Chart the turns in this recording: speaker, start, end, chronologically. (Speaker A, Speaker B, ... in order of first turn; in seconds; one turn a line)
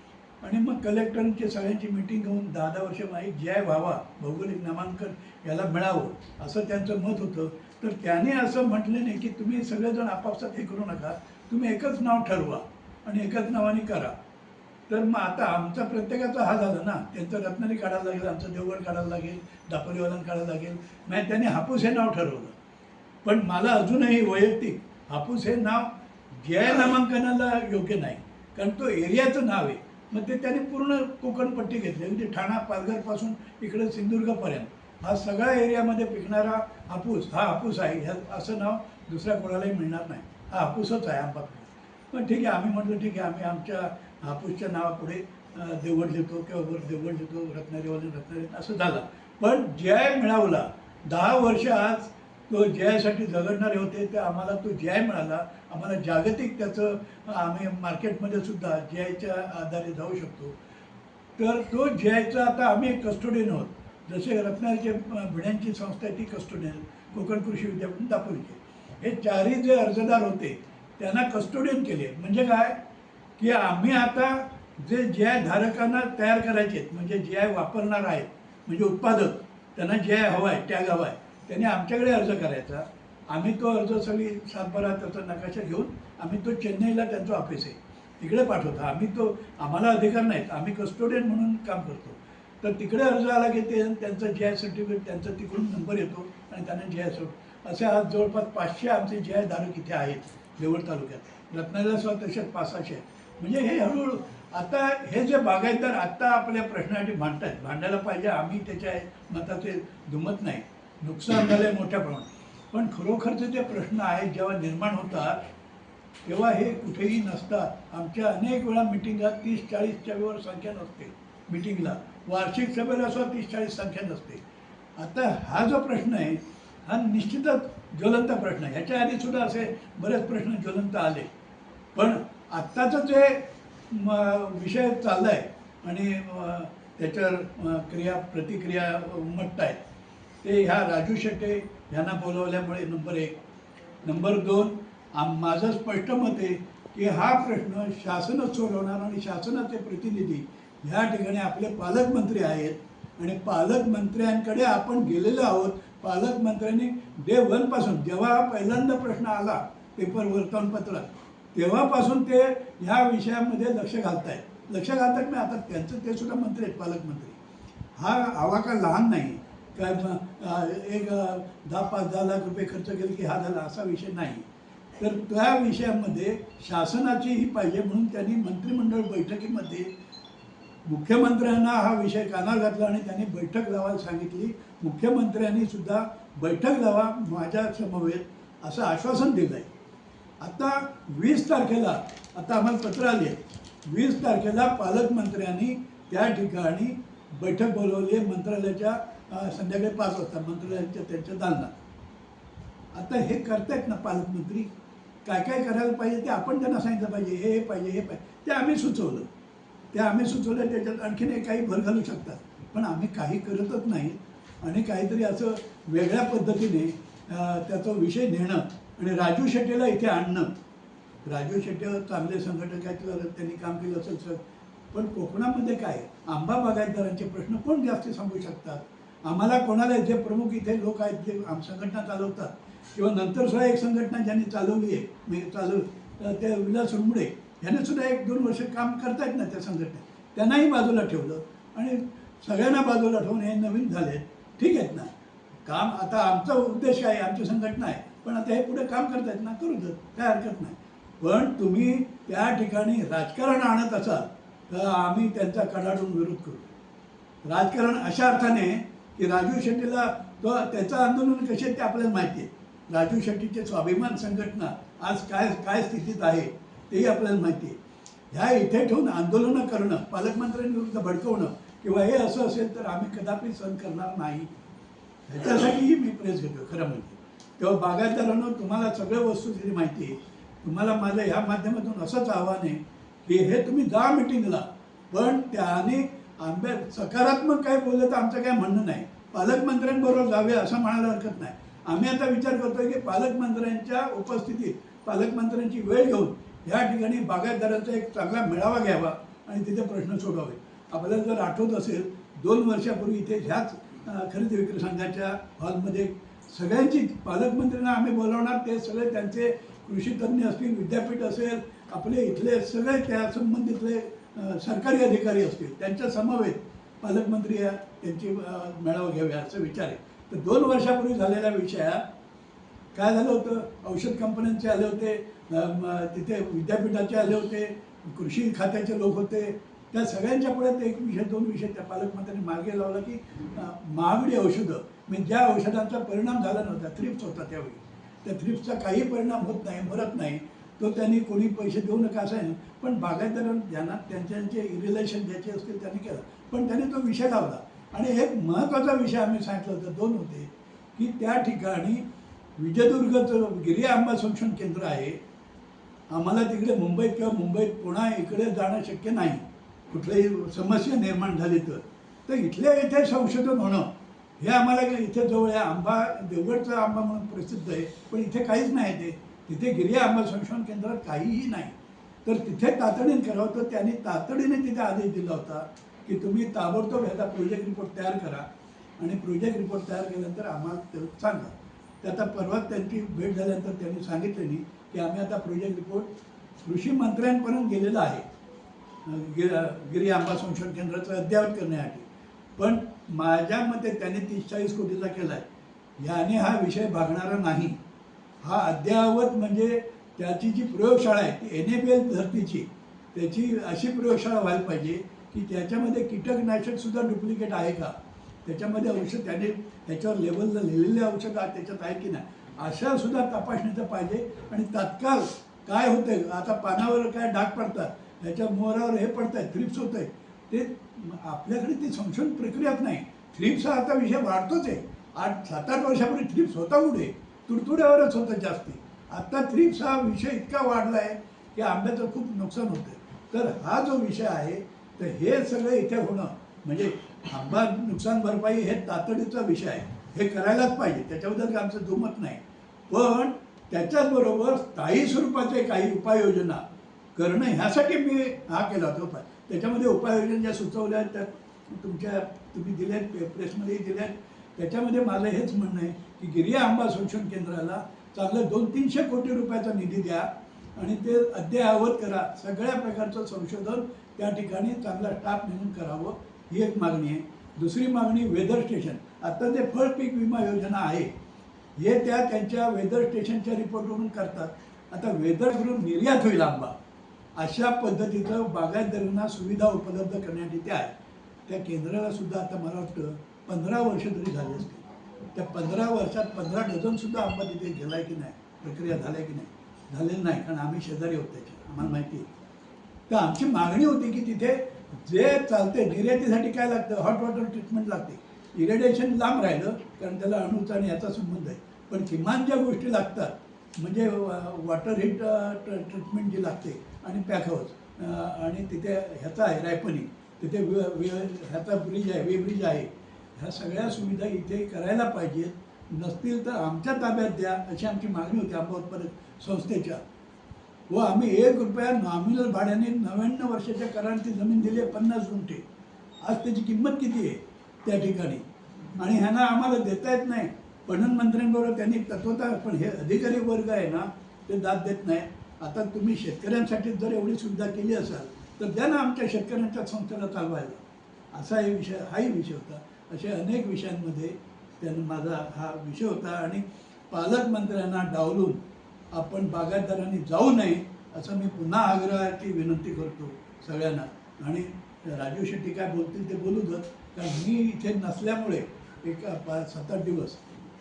Speaker A: 0.4-14.1
Speaker A: 14.9-22.5
Speaker A: 23.2-60.5
Speaker A: 61.4-72.8
Speaker A: 73.4-115.4
Speaker A: 116.2-124.4
Speaker A: 125.0-131.3
Speaker A: 131.9-139.8
Speaker A: 140.4-143.4
Speaker A: 144.0-167.4
Speaker A: 167.9-174.4
Speaker A: 175.0-179.9
Speaker A: 180.9-189.7
Speaker A: 190.4-201.7
Speaker A: 202.9-204.7
Speaker A: 205.2-209.3
Speaker A: 209.9-220.5
Speaker A: 221.2-245.1
Speaker A: 245.6-256.7
Speaker A: 257.4-267.8
Speaker A: 268.3-274.5
Speaker A: 275.3-322.0
Speaker A: 322.9-352.0
Speaker A: 352.6-355.2
Speaker A: 356.1-378.5
Speaker A: 379.0-386.1
Speaker A: 386.6-388.2
Speaker A: 389.0-395.4
Speaker A: 396.0-397.8
Speaker A: 398.4-446.6
Speaker A: 447.1-471.1
Speaker A: 471.8-476.8
Speaker A: 477.4-480.9
Speaker A: 481.5-492.3
Speaker A: 493.1-520.0
Speaker A: 520.9-525.6
Speaker A: 526.2-528.4
Speaker A: 529.0-548.6
Speaker A: 549.1-560.6